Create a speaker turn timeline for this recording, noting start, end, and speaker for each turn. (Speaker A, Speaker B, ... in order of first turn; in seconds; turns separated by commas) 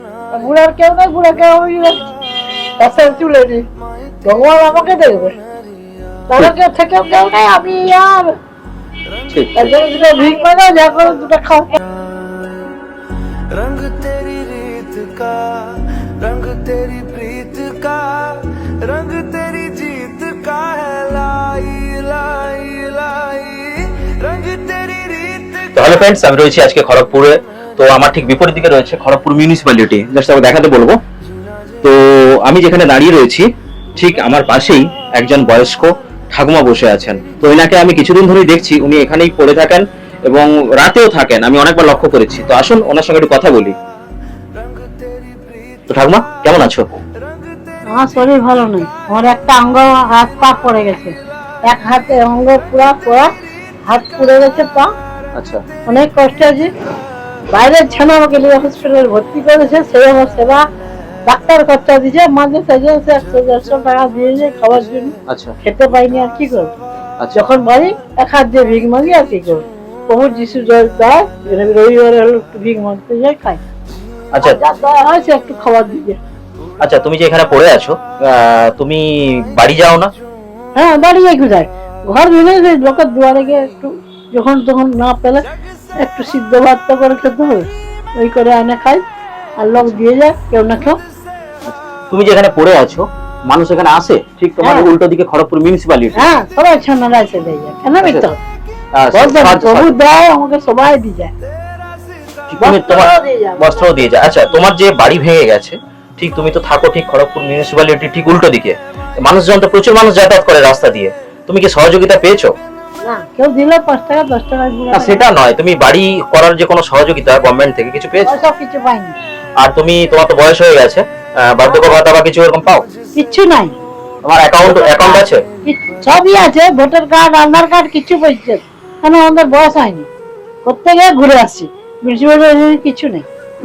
Speaker A: 0.3-2.1, Speaker A: 2.8-3.6, Speaker A: 4.2-5.3, Speaker A: 6.3-8.3, Speaker B: 9.3-9.7, Speaker A: 9.5-11.7, Speaker C: 13.6-25.5, Speaker B: 25.6-31.0, Speaker B: 31.8-33.5, Speaker B: 34.0-43.7, Speaker B: 45.9-46.8, Speaker A: 47.9-53.3, Speaker A: 53.9-54.9, Speaker B: 55.4-55.6, Speaker A: 55.9-56.7, Speaker A: 57.5-60.6, Speaker A: 61.2-66.7, Speaker B: 65.3-65.5, Speaker A: 67.3-73.6, Speaker B: 74.3-74.6, Speaker A: 74.4-76.2, Speaker B: 76.8-80.1, Speaker A: 80.7-85.4, Speaker A: 86.0-89.0, Speaker A: 89.6-91.0, Speaker B: 91.7-96.3, Speaker A: 94.6-94.9, Speaker A: 96.1-98.4, Speaker B: 98.0-98.3, Speaker B: 99.0-100.0, Speaker A: 99.1-101.3, Speaker B: 102.5-112.5, Speaker A: 102.6-104.0, Speaker A: 113.0-115.2, Speaker B: 114.9-118.3, Speaker A: 118.2-119.2, Speaker B: 119.6-122.9, Speaker A: 121.7-122.0, Speaker A: 123.1-123.8, Speaker B: 124.2-125.4, Speaker A: 124.6-130.1, Speaker A: 130.6-133.2